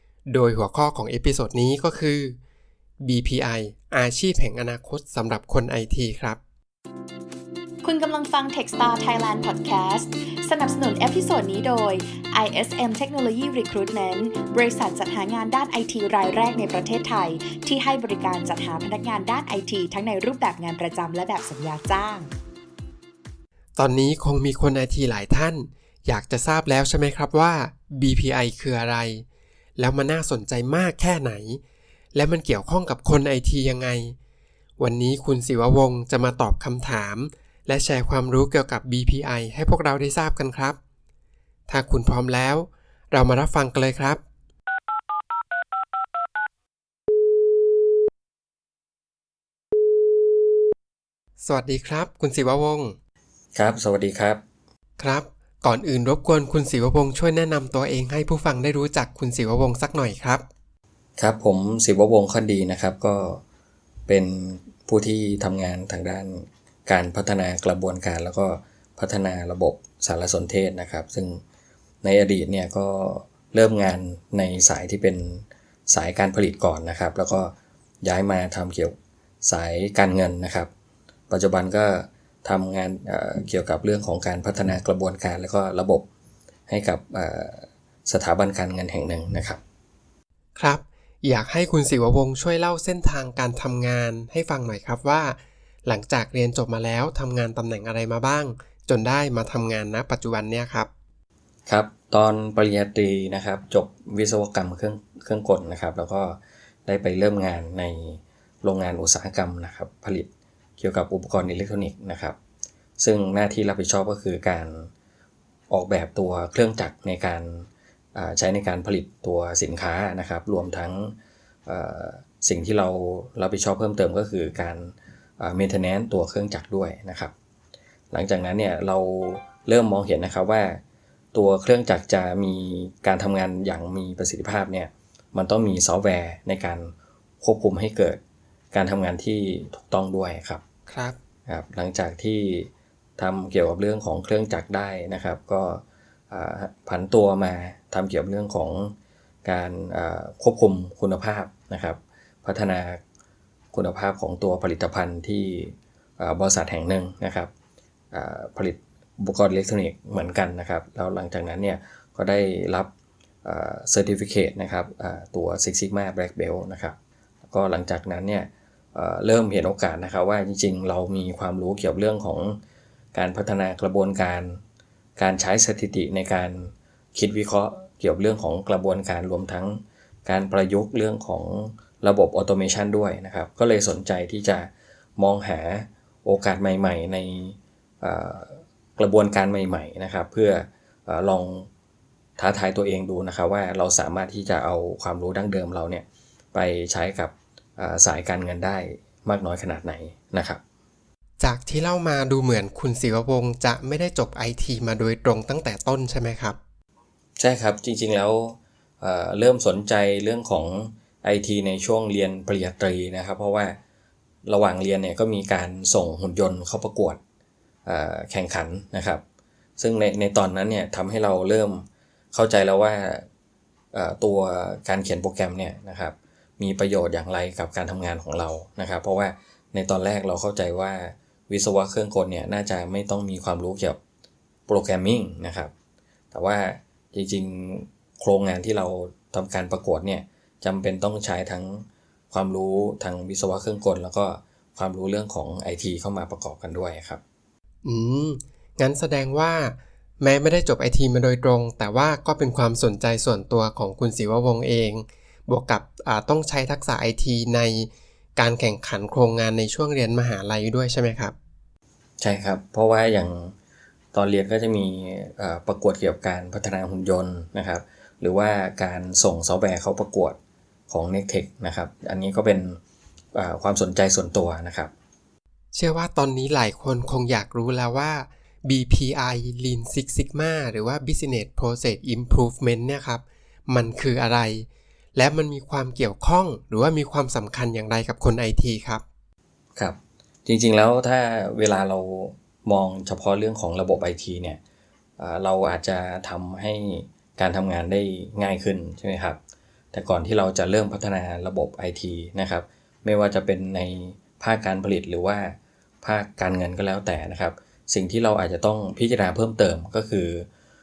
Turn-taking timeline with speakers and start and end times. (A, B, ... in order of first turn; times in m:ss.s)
0:00.3-0:02.4 A
0:03.0-0:06.4 A
0:07.8-0:22.3 B
0:23.8-0:29.2 A
0:29.8-0:31.6 A
0:32.1-0:34.2 A
0:34.8-0:40.8 A
0:41.7-0:44.2 A
0:51.4-0:53.0 A
0:53.6-0:54.4 C
0:55.0-1:00.5 A
1:01.2-1:03.4 C
1:04.1-1:11.4 C
1:12.0-1:20.7 C
1:21.3-1:26.0 C
1:26.7-1:29.6 C
1:30.6-1:40.9 A
1:41.7-1:50.3 C
1:50.8-1:52.4 C
1:53.0-1:54.9 C
1:55.7-2:01.2 C
2:01.7-2:07.3 C
2:08.1-2:10.8 C
2:11.3-2:18.2 C
2:18.7-2:20.6 C
2:20.9-2:21.2 A
2:21.5-2:33.0 C
2:33.7-2:37.5 C
2:38.1-2:42.9 C
2:43.4-2:47.0 C
2:47.5-2:52.6 C
2:53.2-2:54.6 C
2:55.2-3:11.7 C
3:12.4-3:20.6 C
3:21.4-3:26.6 A
3:27.4-3:33.8 C
3:34.5-3:37.2 C
3:37.9-3:39.2 C
3:39.8-3:43.3 C
3:43.9-3:54.0 C
3:54.7-3:55.7 C
3:56.3-4:07.2 C
4:07.8-4:21.4 A
4:22.2-4:23.6 C
4:24.1-4:30.4 C
4:30.9-4:32.8 C
4:33.4-4:34.9 C
4:35.7-4:49.0 A
4:49.8-4:54.6 C
4:55.2-4:59.4 C
4:59.9-5:10.5 C